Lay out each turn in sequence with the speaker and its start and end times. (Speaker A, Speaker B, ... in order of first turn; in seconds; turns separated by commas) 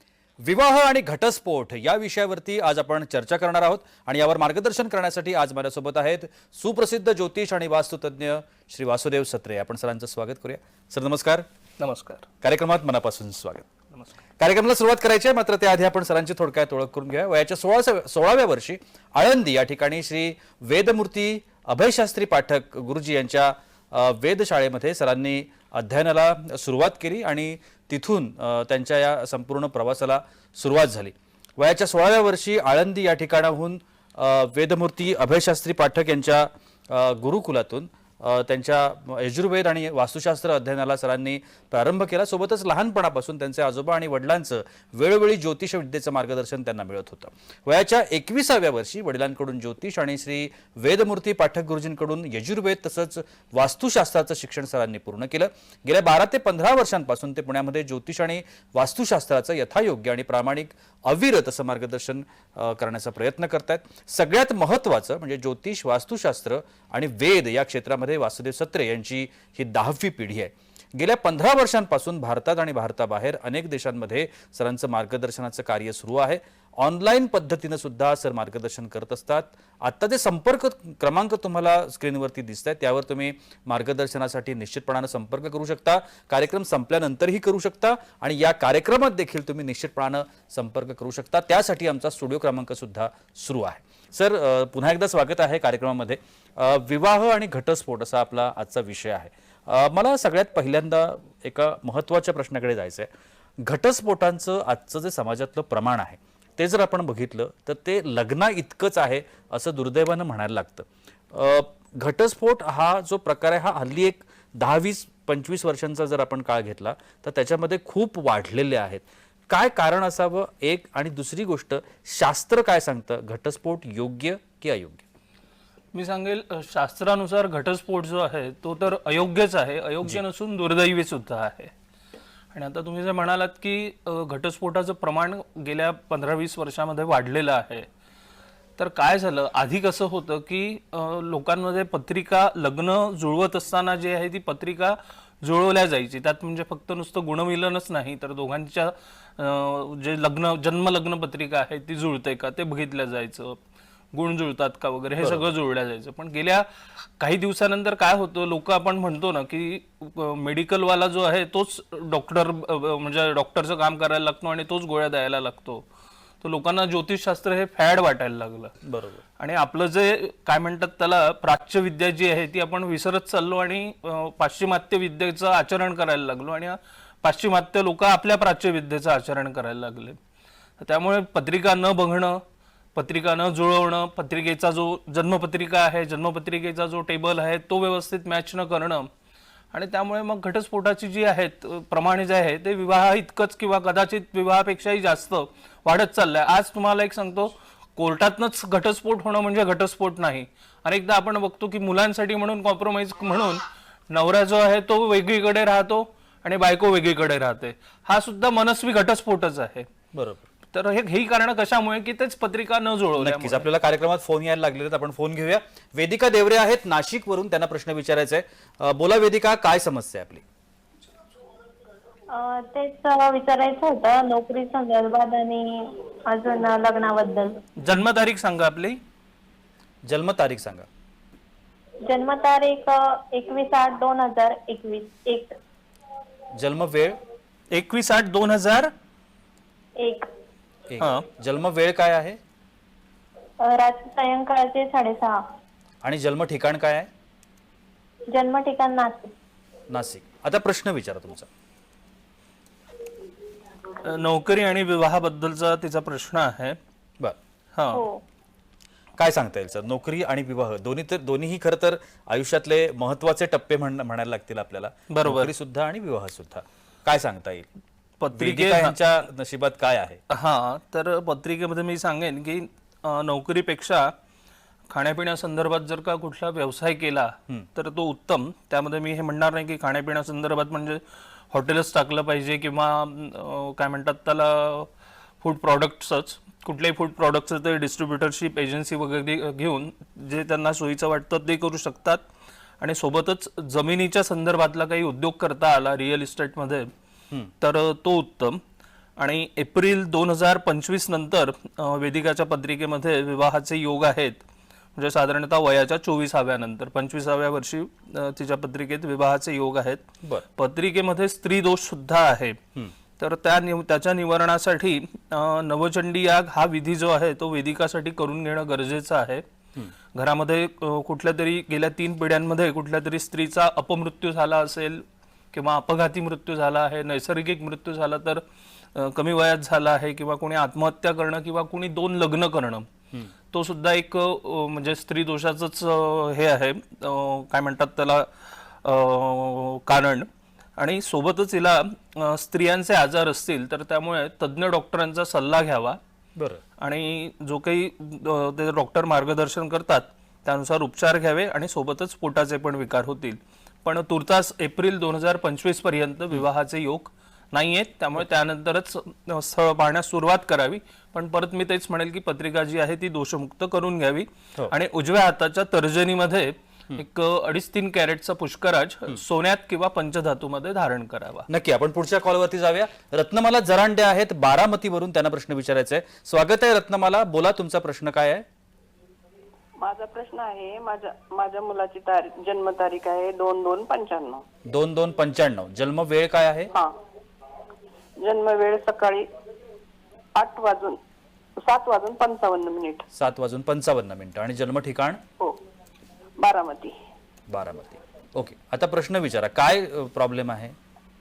Speaker A: 0.4-11.5, Speaker B: 11.8-12.2, Speaker A: 12.4-13.7, Speaker A: 14.4-125.0, Speaker B: 125.9-131.7, Speaker B: 132.5-137.9, Speaker B: 138.8-153.6, Speaker B: 154.1-156.7, Speaker A: 155.2-155.5, Speaker B: 157.2-165.8, Speaker B: 166.4-168.7, Speaker A: 168.8-169.2, Speaker B: 169.4-180.2, Speaker B: 180.8-182.4, Speaker B: 182.9-189.1, Speaker B: 189.7-209.9, Speaker A: 210.1-210.4, Speaker B: 210.7-213.6, Speaker A: 213.2-220.4, Speaker C: 222.3-227.6, Speaker B: 227.8-229.0, Speaker A: 230.0-230.9, Speaker C: 232.0-235.5, Speaker A: 236.5-237.2, Speaker B: 237.7-238.9, Speaker C: 240.0-240.3, Speaker A: 240.9-242.4, Speaker B: 241.0-241.3, Speaker C: 243.6-245.4, Speaker A: 246.0-247.1, Speaker C: 248.3-249.3, Speaker A: 249.9-251.5, Speaker B: 254.0-256.8, Speaker B: 257.7-258.0, Speaker C: 257.9-258.2, Speaker A: 259.2-267.7, Speaker B: 265.1-265.5, Speaker B: 268.2-269.0, Speaker A: 268.3-270.2, Speaker B: 270.3-274.1, Speaker B: 274.9-284.9, Speaker B: 285.4-292.2, Speaker B: 292.8-296.9, Speaker B: 297.6-298.6, Speaker B: 299.2-304.4, Speaker B: 304.9-310.0, Speaker B: 310.6-312.6, Speaker B: 313.2-319.4, Speaker B: 320.1-328.4, Speaker B: 328.9-332.9, Speaker B: 333.5-346.0, Speaker A: 346.4-346.6, Speaker B: 346.8-371.5, Speaker A: 371.5-378.4, Speaker D: 379.8-384.4, Speaker A: 384.6-386.7, Speaker D: 388.2-389.3, Speaker D: 390.3-391.0, Speaker D: 391.6-393.1, Speaker A: 393.1-395.2, Speaker D: 396.4-396.9, Speaker A: 397.5-400.8